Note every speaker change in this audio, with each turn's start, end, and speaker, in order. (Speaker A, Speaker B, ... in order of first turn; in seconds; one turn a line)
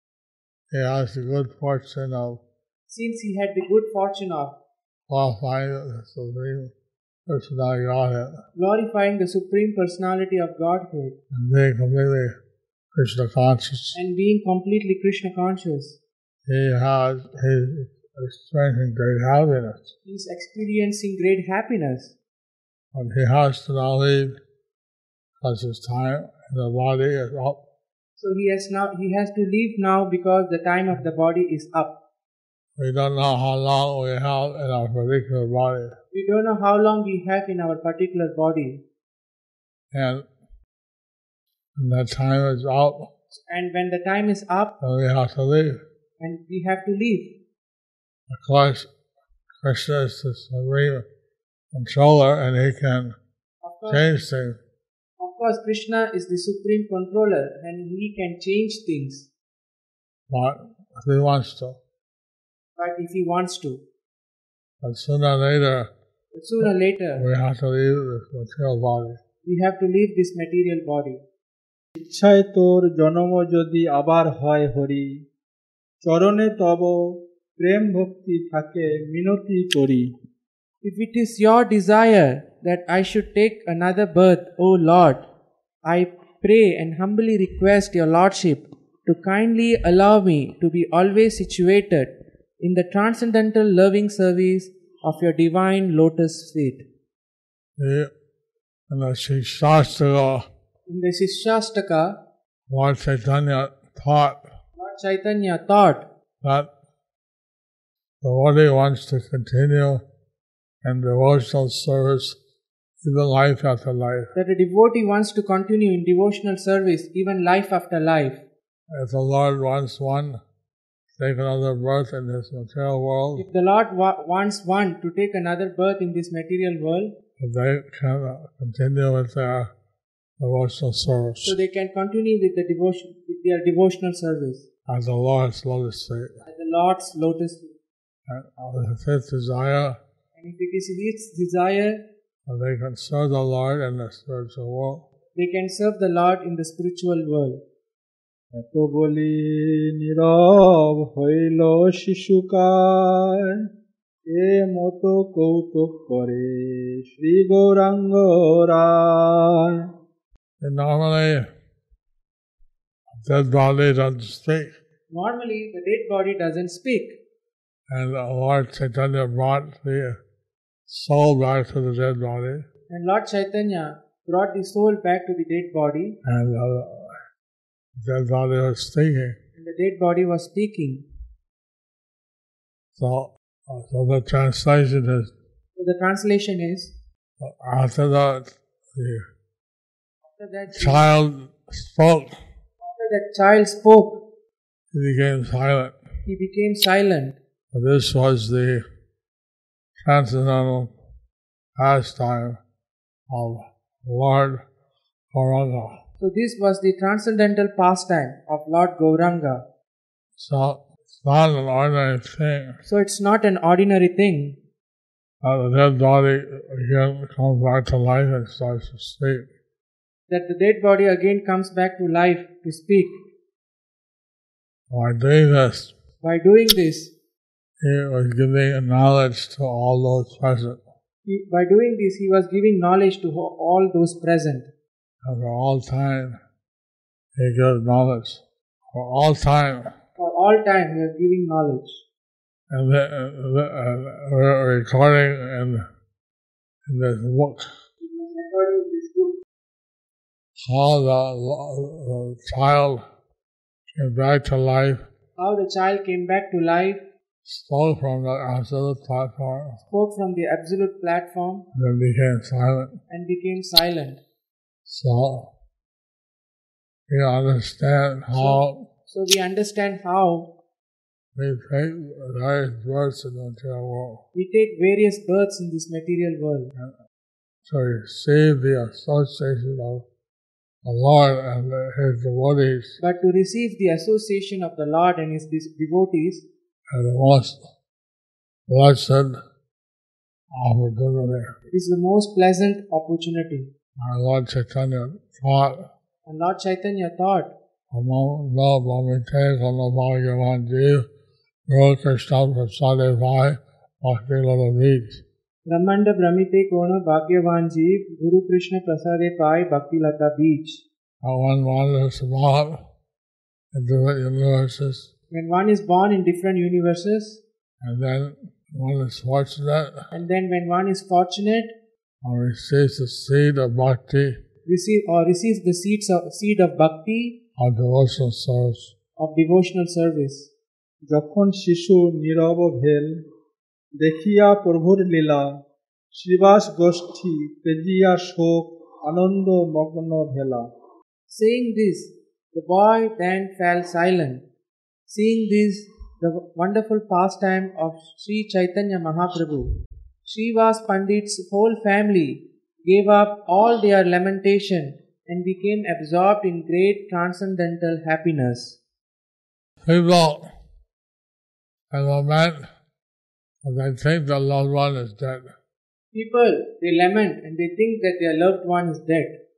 Speaker A: 0.7-2.4
Speaker B: 2.9-4.6
Speaker A: 5.1-6.7
Speaker A: 7.3-8.4
Speaker B: 8.6-11.2
Speaker A: 11.3-12.3
Speaker A: 12.9-14.0
Speaker B: 13.9-16.0
Speaker A: 16.5-19.9
Speaker B: 20.1-22.2
Speaker A: 22.9-24.4
Speaker A: 25.4-27.6
Speaker B: 28.2-32.0
Speaker A: 32.8-36.0
Speaker B: 36.1-38.8
Speaker A: 39.9-40.3
Speaker A: 41.8-43.1
Speaker B: 43.3-44.7
Speaker A: 44.8-45.8
Speaker B: 46.2-47.4
Speaker A: 48.3-48.9
Speaker A: 49.6-51.0
Speaker A: 51.7-53.2
Speaker B: 53.6-54.1
Speaker A: 53.9-54.6
Speaker B: 55.2-59.3
Speaker A: 60.3-61.8
Speaker B: 62.8-63.8
Speaker A: 64.8-65.9
Speaker B: 66.3-67.3
Speaker A: 67.2-69.2
Speaker B: 69.5-71.2
Speaker C: 72.0-75.2
Speaker C: 76.0-80.1
Speaker B: 80.8-85.3
Speaker B: 85.8-96.8
Speaker A: 97.8-98.1
Speaker A: 98.9-100.5
Speaker B: 100.9-102.2
Speaker A: 102.7-104.4
Speaker B: 104.8-106.1
Speaker A: 106.4-106.7
Speaker A: 108.2-110.0
Speaker A: 110.8-112.4
Speaker A: 113.0-114.3
Speaker B: 114.3-118.4
Speaker A: 118.9-120.4
Speaker A: 121.2-123.5
Speaker B: 123.4-127.2
Speaker A: 127.4-129.7
Speaker A: 130.4-131.6
Speaker B: 131.4-134.7
Speaker A: 134.9-136.4
Speaker B: 136.4-137.7
Speaker A: 138.3-140.0
Speaker B: 140.4-142.0
Speaker A: 142.5-145.0
Speaker B: 145.4-147.6
Speaker C: 148.5-153.6
Speaker C: 154.3-159.9
Speaker A: 160.6-161.5
Speaker A: 163.2-164.7
Speaker B: 165.1-167.2
Speaker A: 167.9-170.2
Speaker A: 170.9-172.7
Speaker B: 172.9-176.2
Speaker A: 176.2-177.1
Speaker A: 178.0-179.4
Speaker B: 179.6-181.1
Speaker A: 183.0-185.3
Speaker B: 185.8-186.9
Speaker A: 187.4-189.2
Speaker B: 190.2-191.1
Speaker A: 190.7-192.3
Speaker B: 192.8-194.2
Speaker A: 194.9-195.9
Speaker B: 196.3-197.4
Speaker A: 197.7-198.8
Speaker A: 200.0-200.9
Speaker A: 201.8-202.6
Speaker A: 203.3-204.6
Speaker A: 205.3-206.0
Speaker B: 206.2-209.7
Speaker A: 210.4-212.8
Speaker B: 212.8-214.6
Speaker A: 215.4-219.5
Speaker B: 220.3-223.1
Speaker A: 224.9-225.9
Speaker B: 226.2-227.1
Speaker A: 227.8-230.8
Speaker B: 231.3-234.7
Speaker A: 235.2-236.4
Speaker A: 237.4-238.4
Speaker A: 238.9-239.9
Speaker B: 240.2-242.0
Speaker A: 242.7-245.8
Speaker A: 246.9-247.7
Speaker B: 248.0-249.3
Speaker A: 250.7-253.0
Speaker A: 254.0-255.0
Speaker B: 255.4-257.0
Speaker A: 257.4-259.8
Speaker B: 259.9-261.7
Speaker A: 261.8-263.0
Speaker B: 263.1-264.2
Speaker A: 264.9-265.5
Speaker A: 267.1-268.9
Speaker B: 268.3-270.5
Speaker A: 271.4-274.2
Speaker B: 274.4-276.7
Speaker A: 277.7-280.1
Speaker A: 280.9-283.0
Speaker B: 283.0-286.5
Speaker A: 286.9-287.6
Speaker A: 288.7-289.4
Speaker A: 290.5-291.5
Speaker B: 291.7-293.7
Speaker A: 294.0-295.9
Speaker B: 296.3-297.6
Speaker A: 297.9-301.1
Speaker A: 301.7-305.2
Speaker B: 305.7-310.8
Speaker A: 311.2-312.8
Speaker A: 313.7-315.1
Speaker B: 315.3-317.4
Speaker A: 317.8-320.1
Speaker B: 320.1-321.7
Speaker A: 322.2-324.4
Speaker B: 324.7-327.4
Speaker A: 327.6-328.9
Speaker B: 329.2-330.5
Speaker C: 331.1-333.1
Speaker C: 334.0-335.5
Speaker C: 336.1-340.7
Speaker B: 341.3-344.4
Speaker B: 345.1-349.7
Speaker B: 350.2-358.8
Speaker A: 359.9-360.5
Speaker A: 361.9-362.6
Speaker A: 363.6-365.5
Speaker B: 366.1-369.4